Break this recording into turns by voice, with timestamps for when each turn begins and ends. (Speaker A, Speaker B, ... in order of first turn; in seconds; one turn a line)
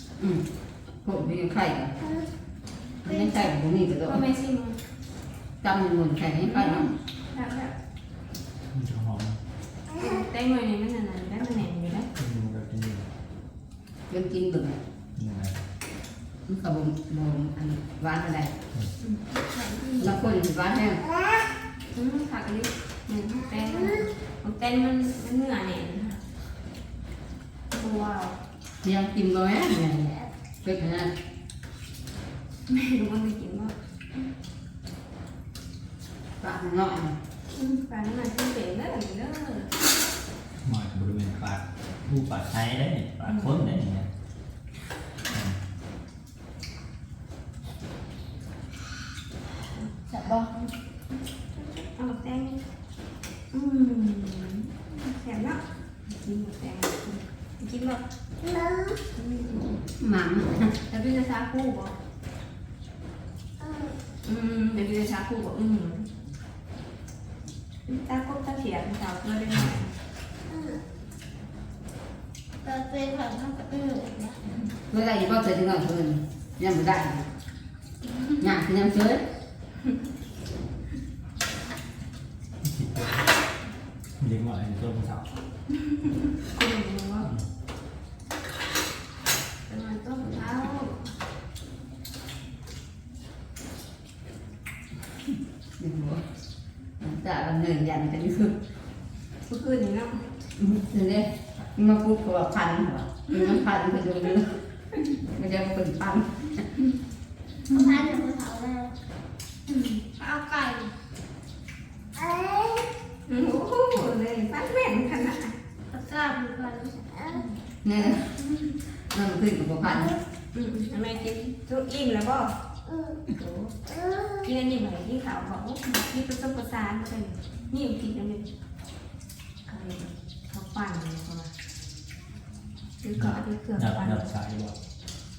Speaker A: 0.2-0.4
Speaker A: 1.0-1.9
Speaker B: 2.0-2.2
Speaker A: 3.0-4.2
Speaker B: 3.0-3.3
Speaker C: 4.0-4.8
Speaker A: 5.6-6.9
Speaker C: 6.4-7.7
Speaker D: 8.7-9.4
Speaker C: 10.0-12.1
Speaker D: 12.2-13.1
Speaker A: 14.1-14.8
Speaker D: 15.2-15.6
Speaker A: 16.5-18.5
Speaker C: 19.0-20.1
Speaker A: 20.0-21.0
Speaker C: 21.9-26.2
Speaker C: 27.7-28.4
Speaker A: 28.8-31.1
Speaker C: 32.7-33.7
Speaker A: 36.4-37.1
Speaker C: 37.5-39.7
Speaker D: 40.6-44.1
Speaker C: 43.2-43.5
Speaker D: 45.3-45.6
Speaker C: 51.5-52.6
Speaker C: 53.5-58.0
Speaker B: 58.4-59.0
Speaker C: 59.1-59.8
Speaker A: 60.0-60.7
Speaker C: 60.9-62.0
Speaker B: 63.6-64.0
Speaker C: 64.2-66.1
Speaker C: 67.8-69.9
Speaker B: 70.5-70.8
Speaker B: 72.6-74.3
Speaker A: 74.9-77.2
Speaker A: 78.4-79.2
Speaker D: 82.6-83.2
Speaker D: 84.2-85.3
Speaker C: 86.4-87.3
Speaker C: 89.7-91.1
Speaker A: 95.8-96.2
Speaker A: 97.0-98.5
Speaker C: 99.4-100.3
Speaker A: 100.5-104.6
Speaker A: 105.2-106.7
Speaker A: 107.7-108.0
Speaker B: 107.7-109.0
Speaker B: 110.2-110.8
Speaker B: 112.1-112.9
Speaker C: 113.3-115.5
Speaker B: 117.1-117.4
Speaker A: 117.8-118.4
Speaker A: 119.0-120.1
Speaker C: 120.5-122.5
Speaker B: 122.8-123.2
Speaker C: 123.3-123.7
Speaker B: 123.9-124.5
Speaker C: 124.4-128.5
Speaker C: 129.7-131.5
Speaker C: 133.0-134.3
Speaker D: 133.2-134.7